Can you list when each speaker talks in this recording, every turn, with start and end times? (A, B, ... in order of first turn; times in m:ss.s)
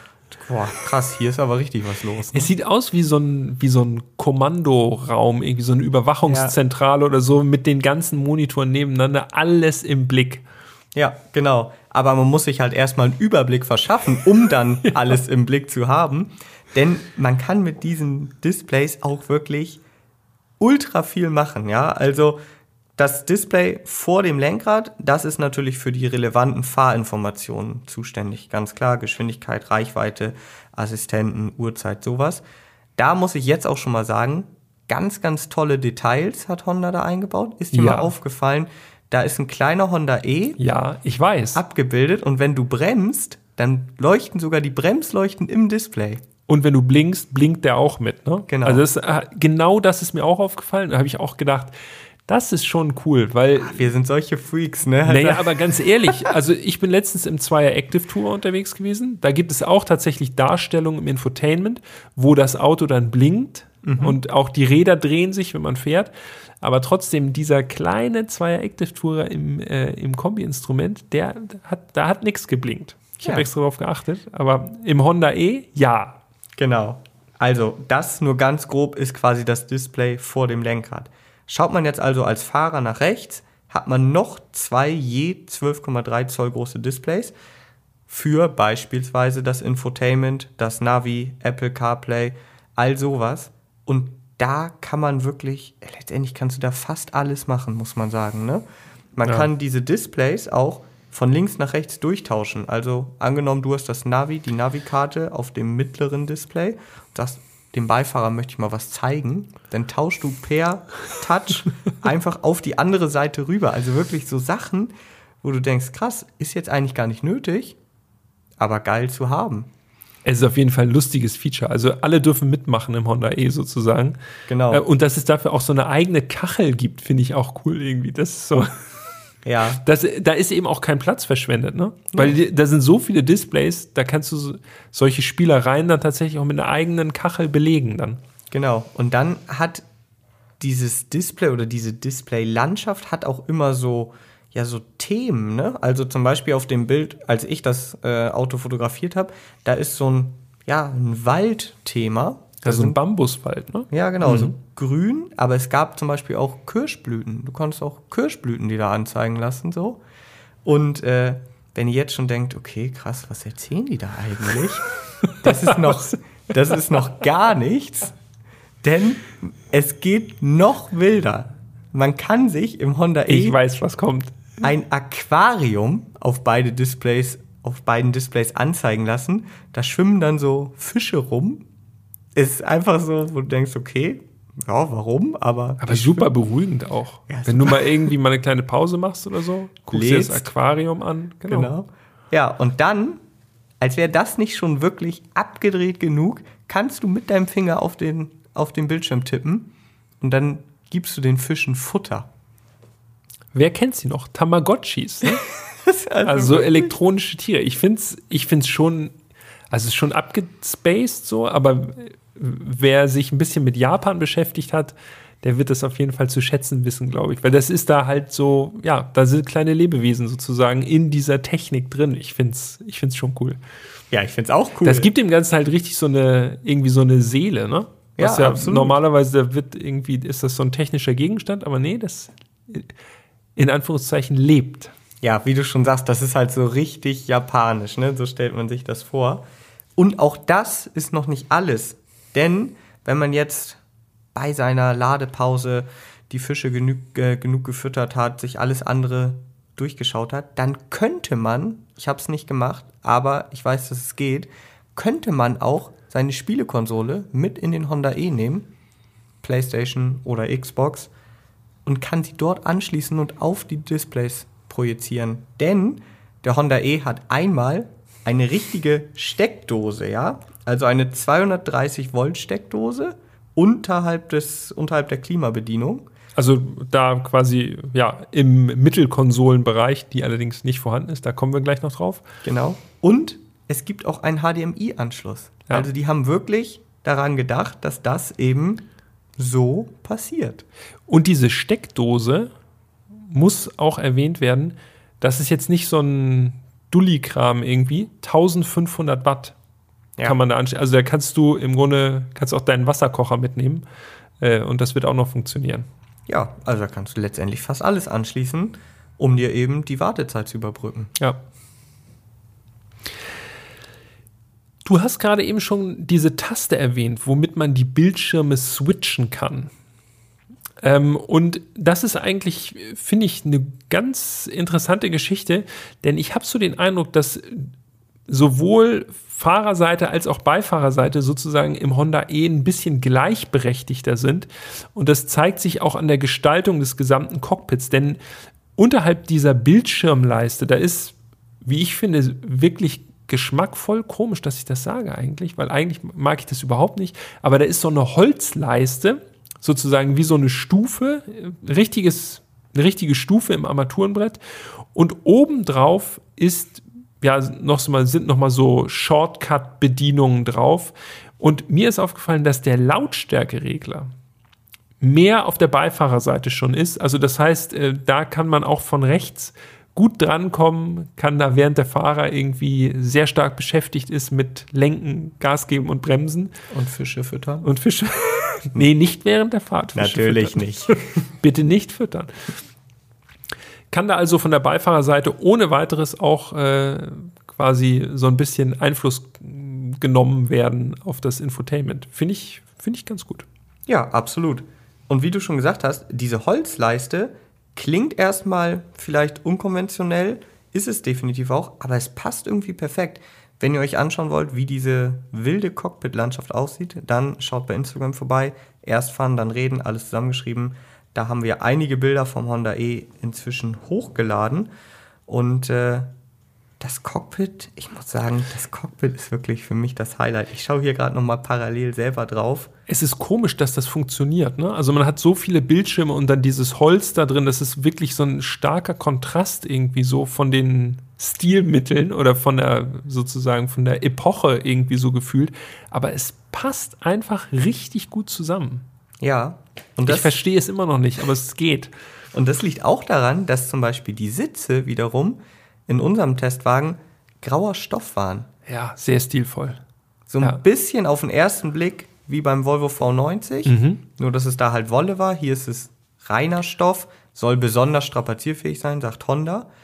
0:00.3-0:02.5 A
0:02.3-0:10.4 B
0:06.3-0:06.6 A
0:11.0-0:19.8 A
0:20.6-0:22.4 A
0:23.0-0:32.4 A
0:33.0-0:40.6 A
0:37.7-0:38.1 B
0:40.6-0:41.6 B
0:41.5-0:46.2 A
0:46.5-0:51.7 B
0:48.5-0:48.8 A
0:52.3-0:53.9 B
0:53.6-0:56.3 A
0:55.1-1:16.2 B
1:03.8-1:04.2 A
1:13.2-1:13.5 A
1:16.6-1:27.3 A
1:28.1-1:38.6 A
1:39.2-1:57.8 A
1:58.6-1:59.7 A
2:00.2-2:04.2 B
2:04.5-2:04.8 A
2:04.7-2:09.1 B
2:09.4-2:09.8 A
2:09.8-2:18.2 B
2:18.5-2:19.8 A
2:20.6-2:33.0 A
2:32.6-2:34.6 B
2:33.9-2:40.0 A
2:40.6-2:48.2 A
2:45.5-2:45.9 B
2:48.8-2:53.6 A
2:53.3-2:54.4 B
2:54.6-3:01.6 A
3:02.4-3:06.3 A
3:05.8-3:11.7 B
3:07.3-3:08.1 A
3:09.9-3:10.5 A
3:11.4-3:13.2 A
3:13.8-3:22.3 A
3:23.5-3:25.4 B
3:25.8-3:27.0 A
3:26.2-3:29.2 B
3:29.7-3:43.6 B
3:44.1-3:45.1 A
3:44.8-3:52.9 B
3:48.2-3:49.0 A
3:53.6-3:54.9 B
3:55.2-3:59.4 A
4:00.0-4:03.8 A
4:04.4-4:18.7 A
4:19.4-4:21.1 A
4:21.9-4:36.0 A
4:36.4-4:42.2 B
4:42.4-4:48.8 A
4:49.4-4:50.6 A
4:51.1-4:52.5 B
4:53.3-4:59.6 B
5:00.2-5:03.8 B
5:04.4-5:05.9 B
5:06.3-5:11.1 A
5:14.8-5:19.7 B
5:20.8-5:27.7 B
5:28.3-5:38.2 B
5:38.8-6:04.1 B
6:05.0-6:16.5 B
6:16.7-6:17.7 A
6:17.6-6:22.6 B
6:20.0-6:21.2 A
6:23.9-6:33.5 B
6:33.9-6:54.7 A
6:55.3-6:56.1 A
6:56.8-7:02.7 A
7:02.9-7:18.9 B
7:19.2-7:20.4 A
7:20.1-7:21.9 B
7:22.3-7:28.5 A
7:28.7-7:29.8 B
7:30.3-7:39.7 A
7:33.7-7:34.0 B